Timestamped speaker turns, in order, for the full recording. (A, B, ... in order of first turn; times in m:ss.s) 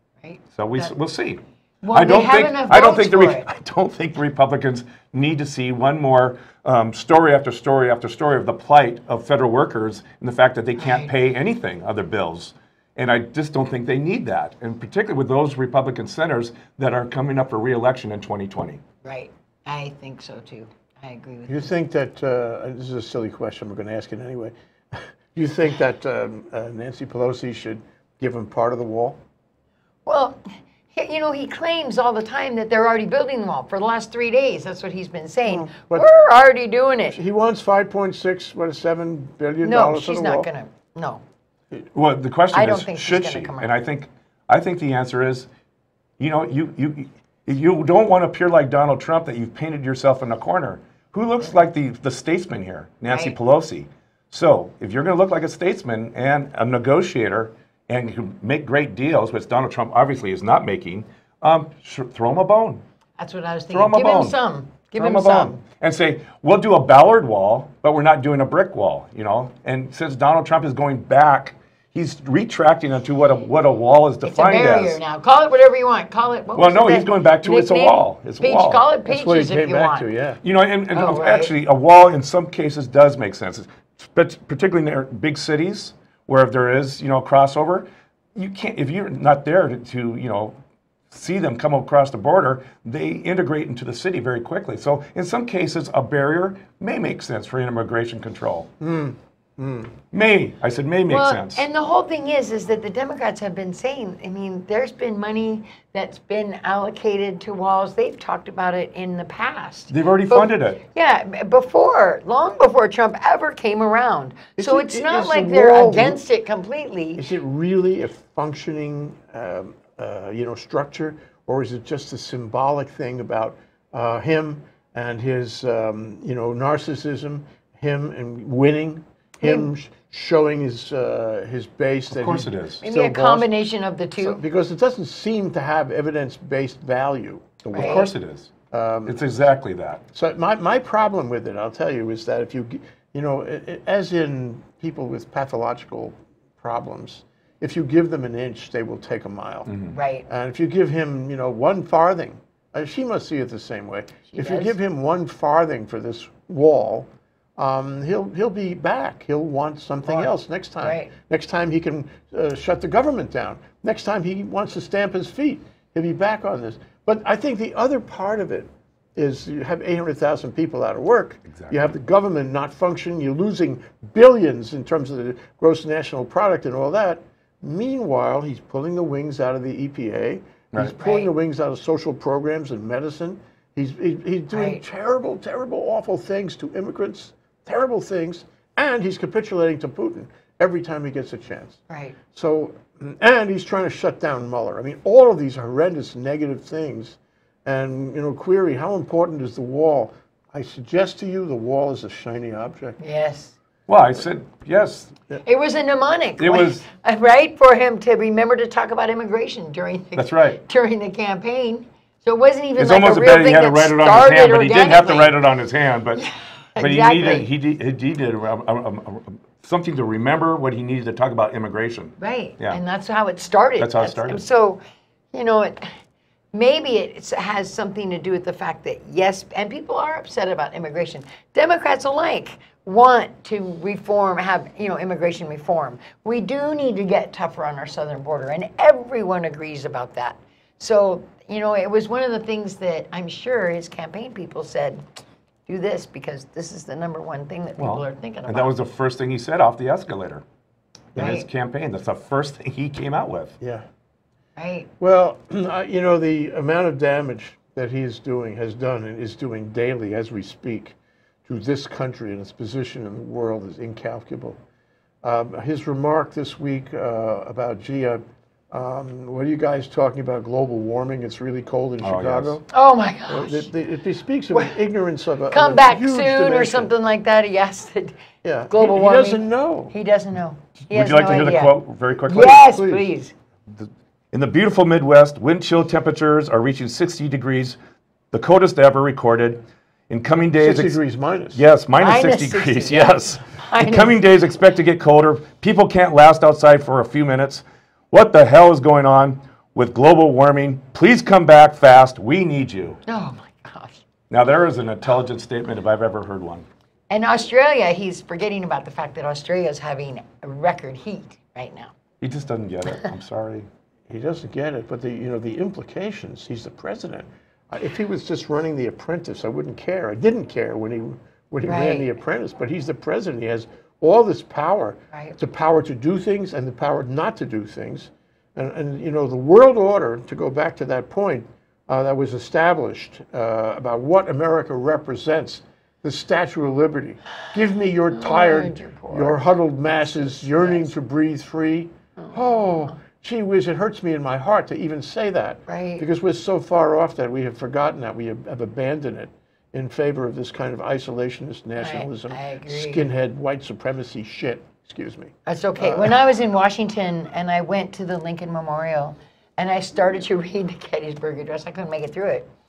0:00.2-0:00.9 A
0:00.5-0:18.8 B
0:01.8-0:03.4 A
0:10.8-0:11.1 A
0:19.0-0:21.7 A
0:21.5-0:29.2 C
0:30.0-0:37.2 A
0:35.5-0:36.1 C
0:37.1-0:40.5 C
0:39.6-0:41.2 A
0:41.9-0:45.5 B
0:42.5-0:43.7 A
0:46.2-1:02.8 B
0:53.1-0:53.3 A
1:03.2-1:05.6 A
1:03.7-1:04.4 B
1:04.9-1:15.0 B
1:14.2-1:20.1 A
1:16.5-1:18.8 B
1:19.0-1:20.4 C
1:20.4-1:30.6 B
1:20.9-1:21.5 A
1:31.1-1:38.7 B
1:38.8-1:39.9 C
1:40.1-1:41.6 B
1:41.1-1:57.2 A
1:49.9-1:50.8 B
1:54.6-1:56.2 C
1:57.2-2:13.5 C
2:09.4-2:09.7 A
2:12.1-2:12.8 B
2:12.8-2:14.4 A
2:14.2-2:18.1 C
2:17.7-2:18.0 A
2:17.7-2:18.5 B
2:18.7-2:19.2 C
2:19.0-2:20.0 B
2:20.1-2:29.7 C
2:29.7-2:29.9 B
2:29.9-2:30.2 A
2:30.3-3:23.0 C
2:34.3-2:34.7 A
2:40.1-2:41.1 A
2:51.5-2:51.9 B
3:00.8-3:01.3 A
3:04.5-3:04.8 A
3:11.9-3:12.2 A
3:23.0-3:23.5 A
3:23.9-3:25.2 B
3:25.4-3:35.4 A
3:26.4-3:26.8 B
3:30.1-3:30.6 B
3:32.8-3:36.2 B
3:36.2-3:37.5 A
3:36.8-3:42.8 B
3:42.2-3:44.8 A
3:43.8-3:44.4 B
3:45.3-3:46.0 A
3:46.5-4:05.0 A
4:05.7-4:08.7 A
4:07.8-4:10.4 B
4:11.1-4:11.5 A
4:11.1-4:13.6 B
4:13.6-4:13.8 C
4:14.6-4:14.9 A
4:15.0-4:20.9 C
4:21.4-4:24.6 C
4:25.2-4:32.6 C
4:32.0-4:32.6 B
4:32.7-4:33.7 A
4:33.3-4:36.9 C
4:35.5-4:43.3 A
4:38.4-4:39.9 C
4:40.9-4:42.6 B
4:42.5-4:43.1 C
4:43.7-4:47.8 B
4:48.3-4:51.0 B
4:50.6-4:51.6 C
4:51.5-5:03.0 B
4:52.0-4:54.2 A
5:03.1-5:04.0 A
5:04.3-5:06.6 B
5:07.1-5:11.9 A
5:12.2-5:13.7 B
5:14.1-5:56.2 C
5:21.6-5:22.1 A
5:38.1-5:39.4 A
5:40.3-5:40.9 A
5:42.2-5:42.9 A
5:45.7-5:46.0 A
5:51.8-5:53.1 A
5:55.4-6:02.5 A